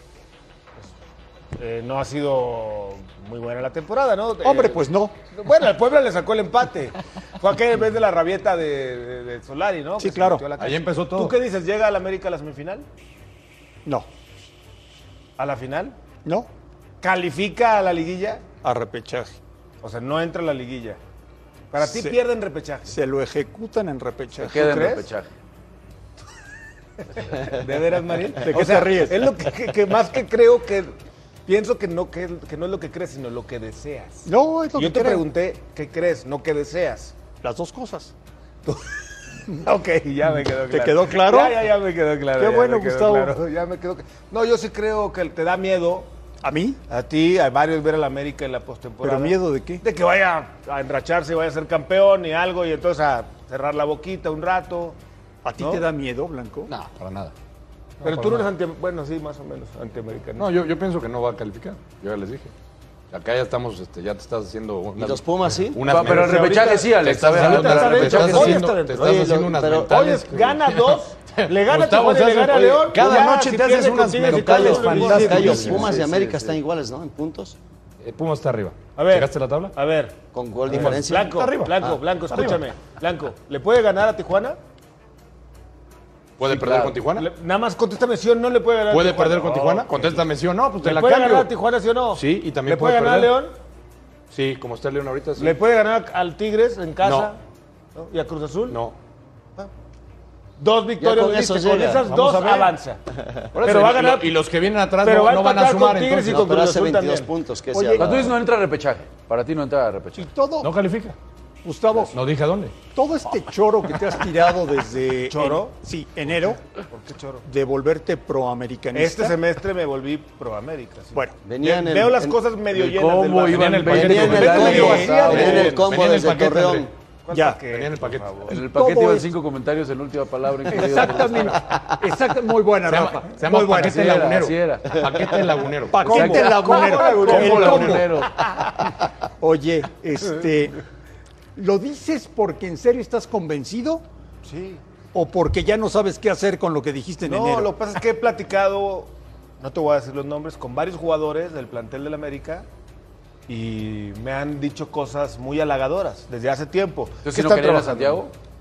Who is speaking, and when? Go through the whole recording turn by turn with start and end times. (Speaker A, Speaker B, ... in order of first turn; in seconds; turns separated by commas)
Speaker A: 1.6-12.9, Speaker B: 4.4-5.2, Speaker B: 10.0-10.4, Speaker C: 10.6-11.4, Speaker A: 15.4-16.0, Speaker A: 17.0-18.4, Speaker B: 18.6-19.4, Speaker A: 19.8-21.0, Speaker A: 21.7-22.9, Speaker B: 21.8-22.2, Speaker B: 22.9-24.6, Speaker D: 24.4-25.3, Speaker A: 24.4-25.1, Speaker A: 27.0-30.9, Speaker B: 28.4-29.2, Speaker A: 31.5-37.1, Speaker B: 34.3-35.2, Speaker B: 37.4-38.1, Speaker A: 38.7-46.1, Speaker B: 40.7-41.7, Speaker B: 42.4-43.3, Speaker B: 46.4-46.8, Speaker A: 46.9-55.0, Speaker B: 49.0-49.8, Speaker B: 55.4-56.7, Speaker A: 55.6-55.8, Speaker C: 56.7-57.3, Speaker A: 58.0-60.5, Speaker C: 58.0-58.5, Speaker C: 60.4-62.5, Speaker C: 63.1-76.0, Speaker E: 65.0-65.8, Speaker D: 65.8-68.7, Speaker A: 65.9-69.2, Speaker E: 68.9-70.0, Speaker A: 69.8-76.0, Speaker E: 74.3-77.6, Speaker D: 76.0-76.5, Speaker C: 78.0-79.7, Speaker A: 79.0-84.6, Speaker E: 80.3-82.0, Speaker C: 80.7-81.8, Speaker C: 82.3-82.6, Speaker C: 86.4-87.3, Speaker A: 86.4-90.3, Speaker C: 88.9-91.5, Speaker A: 90.8-93.5, Speaker C: 92.1-93.4, Speaker C: 94.3-95.6, Speaker A: 95.4-97.4, Speaker C: 97.0-97.3, Speaker A: 98.0-98.8, Speaker C: 98.7-99.0, Speaker A: 100.6-103.0, Speaker E: 101.0-102.1, Speaker C: 102.1-102.7, Speaker E: 103.2-103.5, Speaker C: 103.5-106.5, Speaker A: 103.6-104.4, Speaker A: 105.0-107.3, Speaker E: 106.3-108.3, Speaker B: 107.7-108.3, Speaker D: 108.0-110.3, Speaker B: 110.2-110.7, Speaker C: 110.6-111.2, Speaker B: 111.6-112.2, Speaker C: 112.1-112.7, Speaker B: 112.9-116.6, Speaker A: 115.3-115.7, Speaker A: 116.9-117.4, Speaker B: 117.5-119.4, Speaker A: 118.9-125.9, Speaker E: 121.4-122.4, Speaker D: 122.7-125.7, Speaker C: 123.5-126.9, Speaker E: 123.9-126.9, Speaker B: 124.4-125.3, Speaker A: 127.3-128.6, Speaker B: 127.3-127.6, Speaker C: 127.7-128.3, Speaker B: 128.5-129.3, Speaker D: 128.5-131.6, Speaker B: 130.7-134.2, Speaker C: 132.9-138.0, Speaker D: 133.7-135.1, Speaker B: 135.9-138.1, Speaker D: 136.1-138.4, Speaker A: 136.1-138.6, Speaker B: 139.4-140.8, Speaker B: 141.6-144.0, Speaker A: 144.4-144.8, Speaker B: 145.1-147.7, Speaker A: 147.2-152.7, Speaker A: 153.5-158.2, Speaker D: 157.2-158.3